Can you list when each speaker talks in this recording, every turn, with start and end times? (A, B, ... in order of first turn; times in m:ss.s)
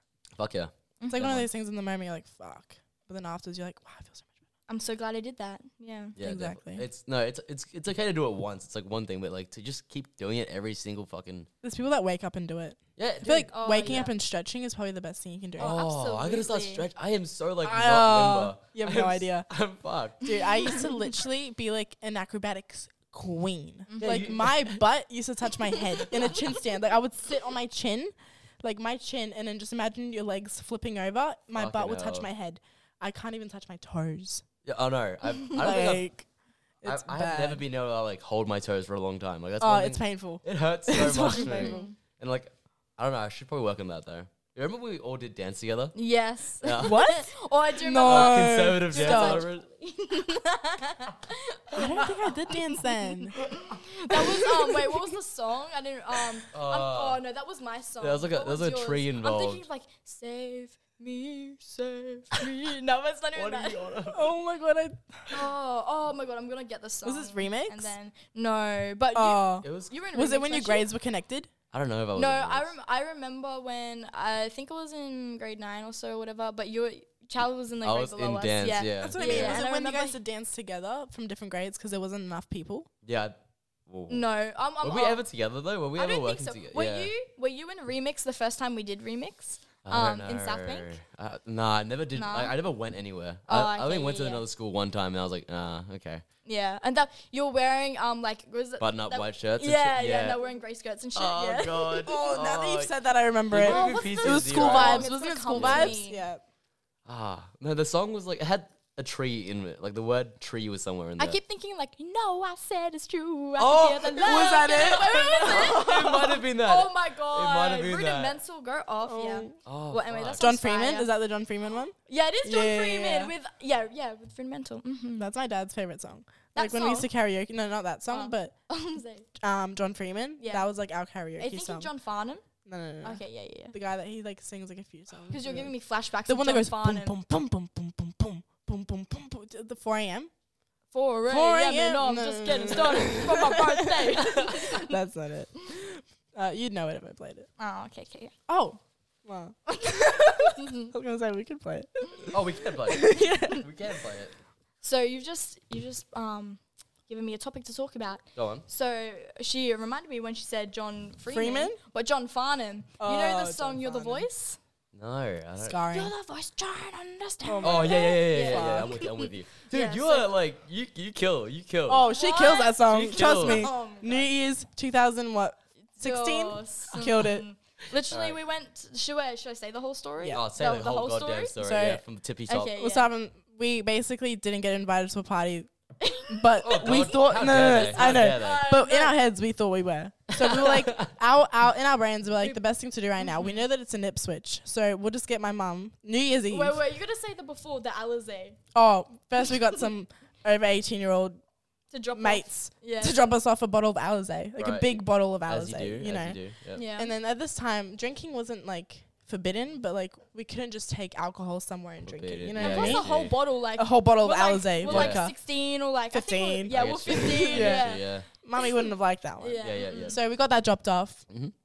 0:00.4-0:01.5 A
0:01.0-0:01.4 B
0:01.1-0:04.3 C
0:04.7-0:06.2 B
0:06.2-0:11.5 A
0:06.2-0:06.9 C
0:11.6-0:15.8 C
0:13.0-0:14.0 A
0:13.5-0:14.1 B
0:15.6-0:16.9 B
0:15.6-0:20.3 A
0:17.6-0:19.5 C
0:20.2-0:34.4 C
0:20.2-0:20.8 B
0:23.9-0:24.4 B
0:24.0-0:24.8 A
0:31.6-0:32.3 A
0:34.6-0:36.1 A
0:35.5-0:36.3 C
0:36.8-0:37.6 C
0:36.8-0:46.0 A
0:39.6-0:41.9 C
0:41.4-0:41.9 B
0:46.0-1:03.9 B
0:46.6-0:47.0 A
0:46.8-0:49.4 C
0:48.0-0:49.6 A
0:51.7-0:53.4 C
0:54.1-0:55.1 C
0:56.5-0:57.2 A
0:58.0-0:59.6 A
1:03.4-1:04.3 A
1:04.1-1:05.5 C
1:05.3-1:10.9 B
1:07.0-1:07.9 C
1:09.1-1:11.5 C
1:09.6-1:09.9 A
1:11.7-1:12.7 A
1:12.2-1:20.2 B
1:17.8-1:19.6 A
1:19.0-1:22.9 C
1:23.0-1:24.3 A
1:24.1-1:25.2 B
1:24.8-1:27.1 A
1:26.0-1:31.0 B
1:29.8-1:36.2 A
1:32.1-1:32.6 B
1:33.5-1:34.4 B
1:36.5-1:42.0 B
1:38.8-1:40.4 A
1:41.2-1:42.9 A
1:42.0-1:46.4 C
1:43.5-1:46.0 A
1:43.5-1:46.2 B
1:47.1-1:51.4 A
1:51.2-2:01.1 B
1:53.6-1:58.4 A
1:54.2-1:56.3 C
1:59.1-1:59.6 C
1:59.6-2:00.5 A
2:00.4-2:03.3 C
2:02.1-2:05.3 B
2:05.2-2:08.5 C
2:06.5-2:07.1 B
2:08.1-2:09.3 B
2:09.4-2:11.9 C
2:10.4-2:10.7 B
2:11.4-2:12.4 B
2:12.7-2:15.7 C
2:13.0-2:13.7 B
2:15.3-2:17.2 B
2:16.3-2:20.3 C
2:20.9-2:25.0 B
2:21.3-2:27.5 C
2:27.6-2:28.3 B
2:28.5-2:33.6 C
2:29.8-2:30.9 B
2:32.3-2:34.4 A
2:34.8-2:44.6 B
2:38.4-2:38.6 A
2:41.3-2:41.8 C
2:43.0-2:44.3 C
2:44.9-2:45.8 A
2:45.6-2:46.1 C
2:45.9-2:50.3 B
2:47.4-2:49.0 C
2:47.6-2:52.1 A
2:51.9-2:57.4 C
2:52.1-2:54.3 B
2:52.9-2:53.7 A
2:56.0-3:01.5 B
2:58.1-2:58.4 A
3:00.3-3:02.7 A
3:01.6-3:02.0 C
3:02.5-3:03.1 B
3:02.8-3:05.7 C
3:06.0-3:09.2 B
3:06.3-3:16.8 C
3:06.6-3:08.7 A
3:10.3-3:11.1 A
3:13.2-3:13.6 B
3:16.5-3:18.6 B
3:18.7-3:21.4 C
3:21.9-3:23.3 B
3:22.2-3:26.4 C
3:24.6-3:26.8 A
3:26.8-3:27.1 B
3:27.0-3:33.2 C
3:32.0-3:33.4 A
3:32.6-3:38.9 B
3:33.8-3:35.4 C
3:34.9-3:35.2 A
3:36.1-3:41.2 C
3:36.7-3:38.3 A
3:39.4-3:40.2 B
3:39.6-3:40.2 A